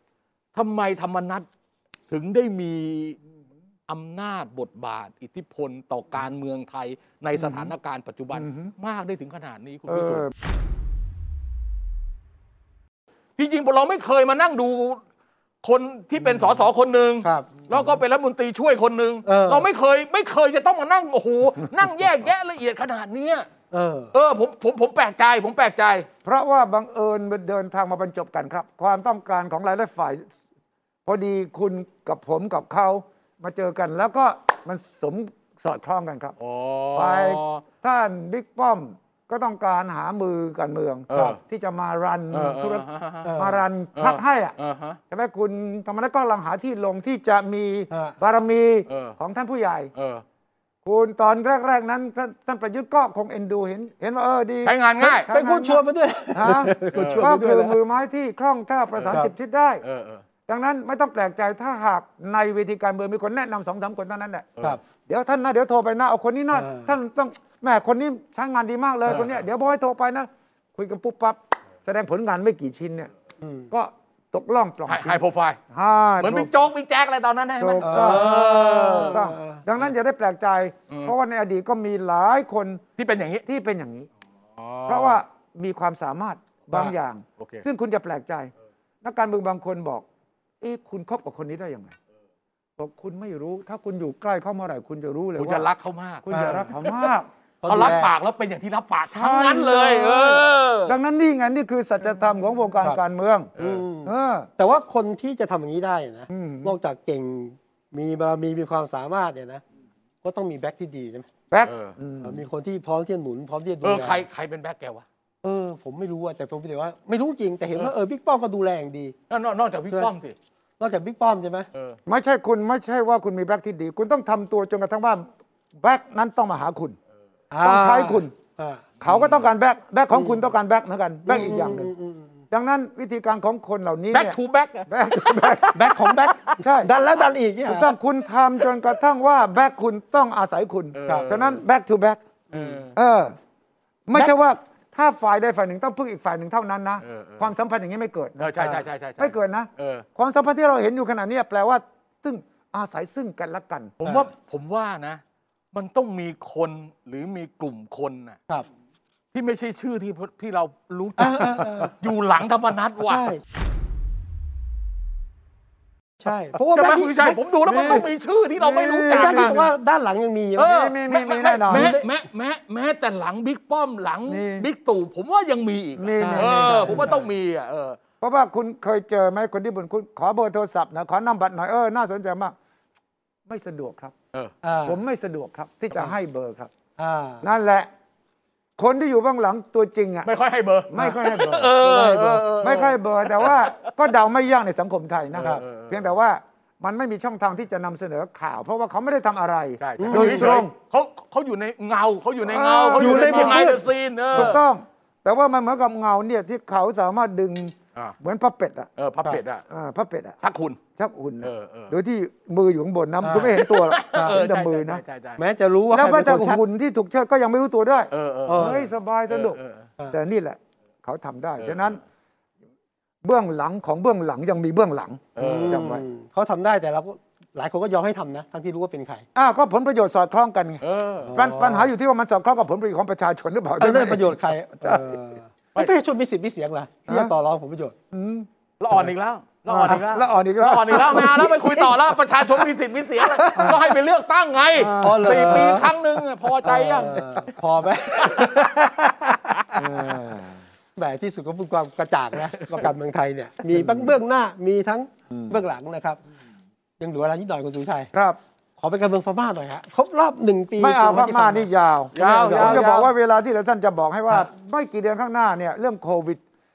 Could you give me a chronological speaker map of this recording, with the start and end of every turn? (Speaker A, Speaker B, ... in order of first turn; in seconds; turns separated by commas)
Speaker A: 0.5-1.4, Speaker A: 2.1-3.2, Speaker A: 3.9-10.3, Speaker B: 7.4-7.7, Speaker B: 8.3-8.7, Speaker B: 9.9-10.3, Speaker A: 13.4-15.0, Speaker A: 15.6-23.5, Speaker C: 17.2-17.6, Speaker C: 19.2-19.7, Speaker C: 23.7-24.1, Speaker A: 24.1-26.1, Speaker B: 26.2-30.3, Speaker B: 31.1-36.4, Speaker A: 36.4-37.6, Speaker B: 36.9-44.5, Speaker A: 41.1-41.4, Speaker A: 42.3-43.3, Speaker C: 43.2-43.6, Speaker A: 43.9-45.0, Speaker B: 45.1-49.9, Speaker A: 48.9-49.2, Speaker A: 49.9-50.2, Speaker B: 50.8-59.8, Speaker A: 54.6-55.3, Speaker C: 55.3-57.7, Speaker A: 56.9-57.4, Speaker A: 59.8-60.2, Speaker B: 60.5-73.1, Speaker C: 66.5-66.9, Speaker C: 73.4-73.7, Speaker B: 73.7-76.5, Speaker A: 74.9-75.6, Speaker A: 76.2-79.2, Speaker B: 77.6-82.8, Speaker C: 77.8-79.6, Speaker A: 80.9-81.1, Speaker A: 83.0-83.4, Speaker B: 83.4-84.1, Speaker A: 84.6-85.2, Speaker B: 84.9-88.5, Speaker A: 87.4-87.6, Speaker B: 89.0-90.0, Speaker B: 90.6-91.9, Speaker B: 92.8-95.7, Speaker A: 95.4-96.2, Speaker B: 96.2-98.0, Speaker C: 96.3-96.7, Speaker A: 96.8-97.1, Speaker C: 97.6-98.1, Speaker A: 97.7-101.0, Speaker B: 99.1-103.5, Speaker A: 103.6-103.8, Speaker C: 103.6-109.6, Speaker B: 104.0-104.5, Speaker B: 106.3-106.8, Speaker C: 110.2-111.3, Speaker B: 111.5-112.4, Speaker A: 111.6-112.0, Speaker C: 112.2-114.2, Speaker A: 113.8-115.0, Speaker C: 115.4-119.1, Speaker A: 119.3-120.3, Speaker C: 120.8-121.7, Speaker B: 122.0-127.0, Speaker C: 127.5-128.9, Speaker B: 127.6-128.3, Speaker B: 129.0-131.9, Speaker A: 129.0-129.4, Speaker C: 130.1-130.4, Speaker C: 131.3-132.4, Speaker B: 132.5-136.0, Speaker A: 134.1-136.6, Speaker C: 135.7-137.9, Speaker B: 136.6-136.9, Speaker B: 137.7-142.2, Speaker A: 140.9-141.6, Speaker C: 142.5-142.8, Speaker A: 142.5-142.9, Speaker B: 142.9-143.3, Speaker B: 144.1-148.6, Speaker A: 147.0-147.5, Speaker A: 148.4-150.1, Speaker B: 149.2-153.9, Speaker A: 154.0-155.2, Speaker C: 154.0-154.3, Speaker A: 155.7-158.4, Speaker A: 159.3-163.3, Speaker C: 161.2-161.9, Speaker C: 163.0-163.4, Speaker C: 166.2-168.0, Speaker A: 166.7-169.7, Speaker B: 167.6-168.1, Speaker B: 168.6-169.6, Speaker C: 169.1-170.7, Speaker A: 170.6-178.0, Speaker B: 170.6-171.9, Speaker C: 171.7-172.0, Speaker B: 174.3-174.7, Speaker B: 176.0-177.2, Speaker C: 176.2-177.2, Speaker B: 178.2-182.6, Speaker B: 183.4-184.1, Speaker C: 184.6-185.0, Speaker B: 184.8-186.7, Speaker C: 187.0-187.4, Speaker B: 187.4-187.9, Speaker B: 188.8-190.3, Speaker A: 190.2-193.9, Speaker B: 190.9-191.7, Speaker C: 191.7-192.5, Speaker B: 192.6-200.7, Speaker A: 195.3-196.0, Speaker A: 199.8-204.6, Speaker C: 200.0-200.5, Speaker B: 202.4-203.7, Speaker C: 203.0-203.8, Speaker B: 204.3-208.9, Speaker A: 209.0-209.6, Speaker B: 209.7-210.4, Speaker A: 210.4-210.8, Speaker B: 211.0-215.0, Speaker A: 211.4-211.9, Speaker C: 213.2-213.6, Speaker A: 213.6-215.4, Speaker C: 215.4-216.6, Speaker B: 215.9-219.6, Speaker A: 218.1-219.9, Speaker C: 218.5-218.8, Speaker B: 220.1-222.0, Speaker A: 221.6-222.0, Speaker B: 223.2-226.0, Speaker A: 225.3-225.9, Speaker C: 225.4-229.2, Speaker B: 229.3-230.8, Speaker A: 230.8-231.3, Speaker C: 231.2-231.9, Speaker B: 231.3-235.1, Speaker C: 233.8-237.9, Speaker B: 237.1-237.3, Speaker B: 238.1-238.5, Speaker A: 238.8-247.2, Speaker B: 239.7-241.6, Speaker C: 240.9-242.7, Speaker C: 243.2-243.8, Speaker B: 244.8-245.9, Speaker C: 245.0-245.9, Speaker C: 246.6-249.6, Speaker B: 247.1-247.4, Speaker A: 248.2-248.7, Speaker A: 249.3-249.7, Speaker B: 249.7-250.6, Speaker C: 250.9-256.2, Speaker B: 253.7-254.1, Speaker B: 255.3-255.6, Speaker C: 257.0-258.1, Speaker B: 258.1-258.4, Speaker C: 258.8-261.7, Speaker B: 260.8-266.4, Speaker A: 262.1-263.1, Speaker C: 262.4-262.9